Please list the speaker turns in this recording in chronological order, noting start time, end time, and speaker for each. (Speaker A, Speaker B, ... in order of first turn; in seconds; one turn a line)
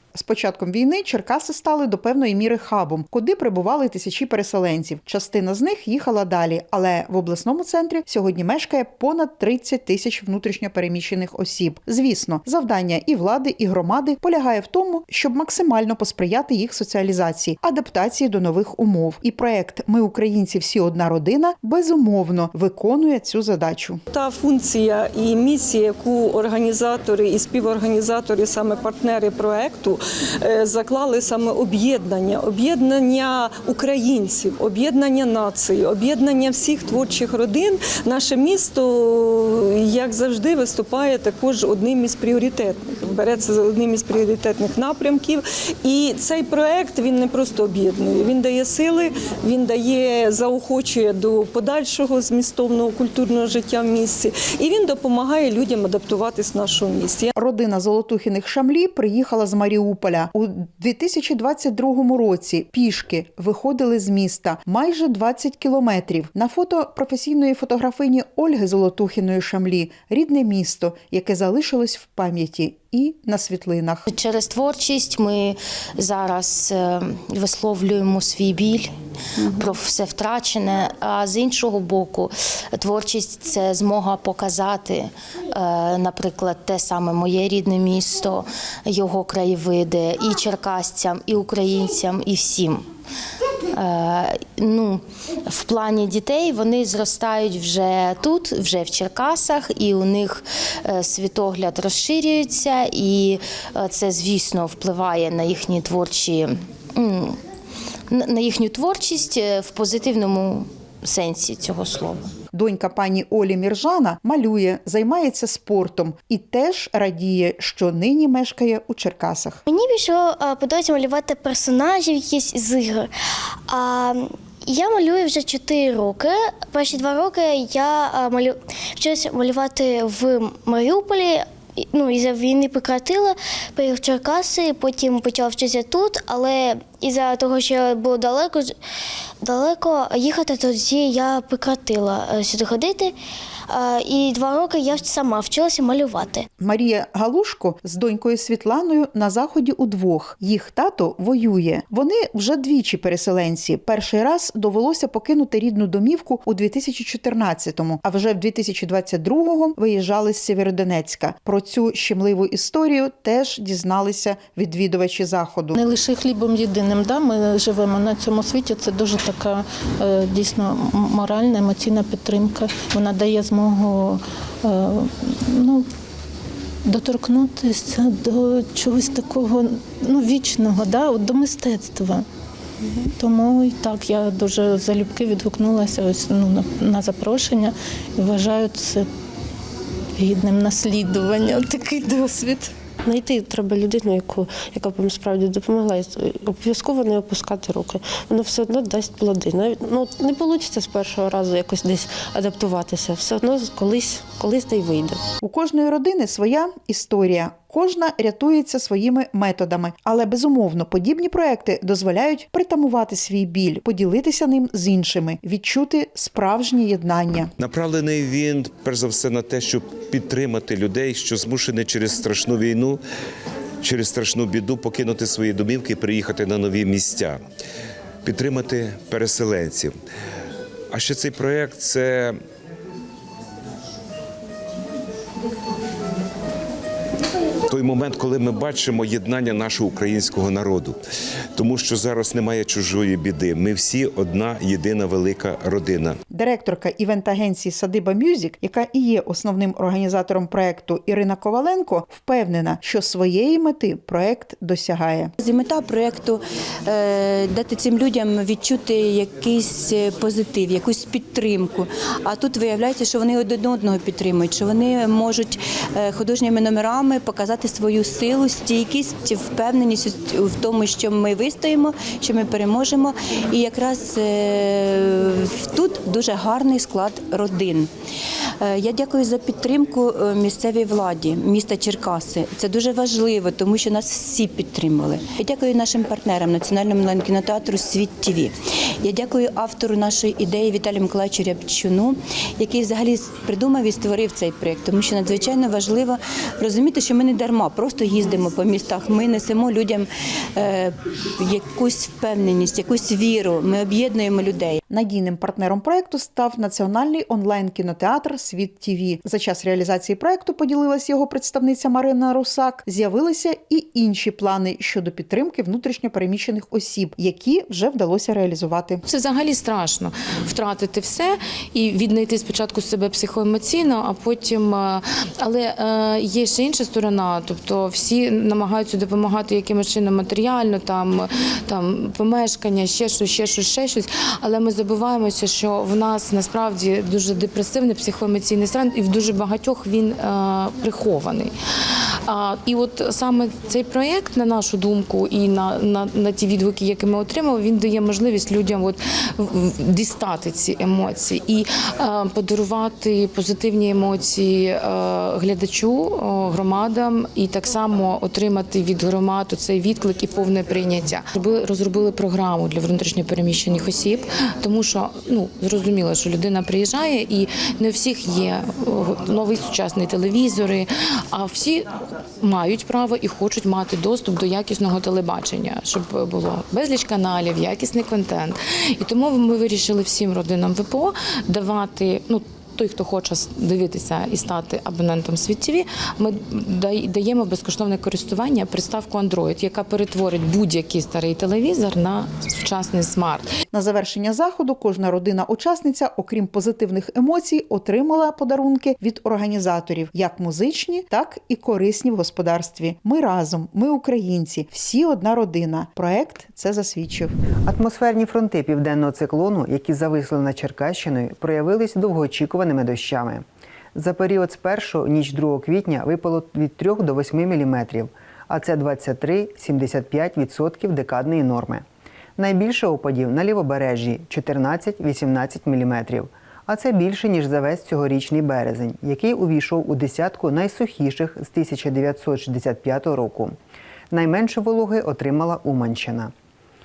Speaker A: 0.1-24.0
Speaker B: 24.1-57.3
Speaker A: 57.3-74.0
Speaker C: 74.1-78.9
Speaker C: 79.5-92.8
Speaker C: 93.7-107.4
Speaker C: 108.1-112.3
Speaker A: 112.5-119.6
Speaker D: 119.7-123.1
Speaker D: 123.7-138.7
Speaker D: 139.4-143.1
Speaker D: 143.7-146.4
Speaker A: 146.6-165.8
Speaker E: 165.8-175.8
Speaker E: 176.8-182.2
Speaker E: 183.2-189.1
Speaker E: 190.2-192.7
Speaker F: 193.1-205.2
Speaker A: 205.4-217.5
Speaker G: 217.6-223.0
Speaker G: 223.8-227.4
Speaker G: 228.2-229.9
Speaker G: 230.9-232.4
Speaker G: 237.7-241.0
Speaker G: 241.6-246.2
Speaker A: 246.3-255.3
Speaker H: 255.4-277.9
Speaker H: 278.6-304.8
Speaker A: 304.9-319.0
Speaker I: 319.1-341.5
Speaker I: 342.2-393.5
Speaker A: 393.7-407.3
Speaker J: 407.6-413.4
Speaker J: 413.9-421.8
Speaker J: 422.4-433.6
Speaker J: 434.1-436.3